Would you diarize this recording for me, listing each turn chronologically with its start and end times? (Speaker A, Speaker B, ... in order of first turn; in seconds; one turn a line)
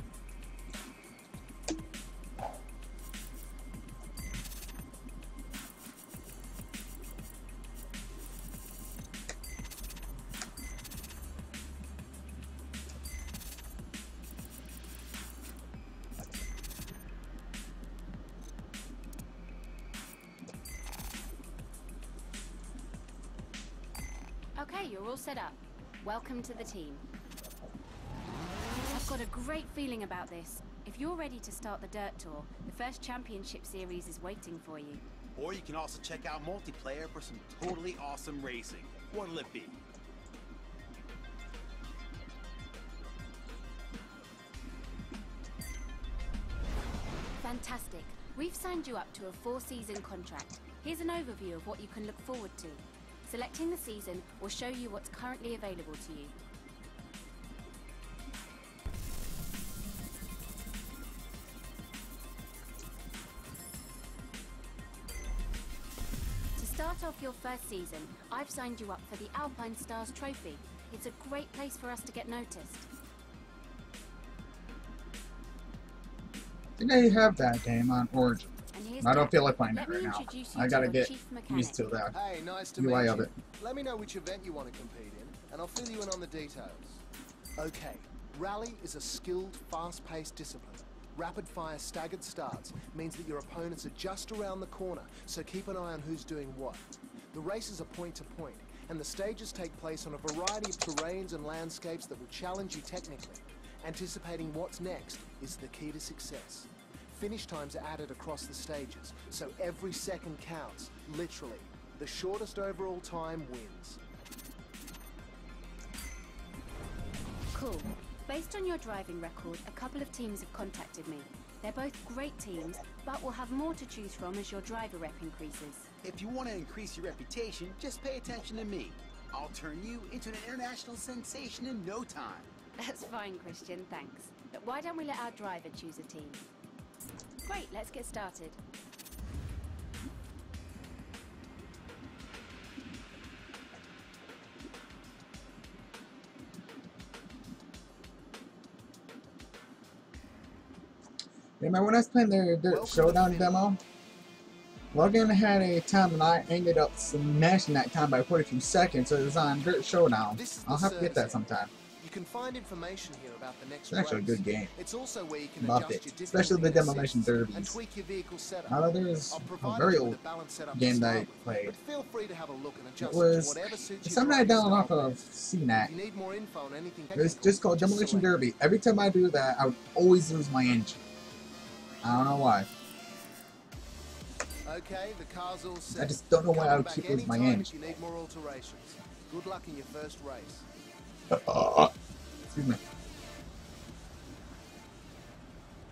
Speaker A: 24.6-27.0
Speaker A: 28.8-35.0
Speaker B: 35.3-39.8
Speaker A: 47.4-56.3
Speaker A: 66.6-72.9
Speaker C: 76.8-82.1
Speaker A: 78.7-81.8
Speaker D: 82.1-87.0
Speaker C: 82.8-83.3
Speaker D: 87.6-114.0
Speaker A: 117.5-125.9
Speaker B: 126.0-132.5
Speaker A: 132.8-136.4
Speaker A: 137.4-138.6
Speaker C: 151.6-153.8
Speaker D: 152.7-153.7
Speaker C: 154.9-161.7
Speaker D: 160.3-161.4
Speaker D: 162.0-175.2
Speaker C: 163.9-164.7
Speaker C: 165.6-167.8
Speaker C: 168.7-170.2
Speaker C: 170.7-171.7
Speaker C: 173.0-175.9
Speaker D: 175.8-178.4
Speaker C: 177.1-181.0
Speaker C: 182.0-182.7
Speaker D: 184.6-190.7
Speaker C: 185.9-187.7
Speaker C: 191.3-191.9
Speaker C: 192.4-192.8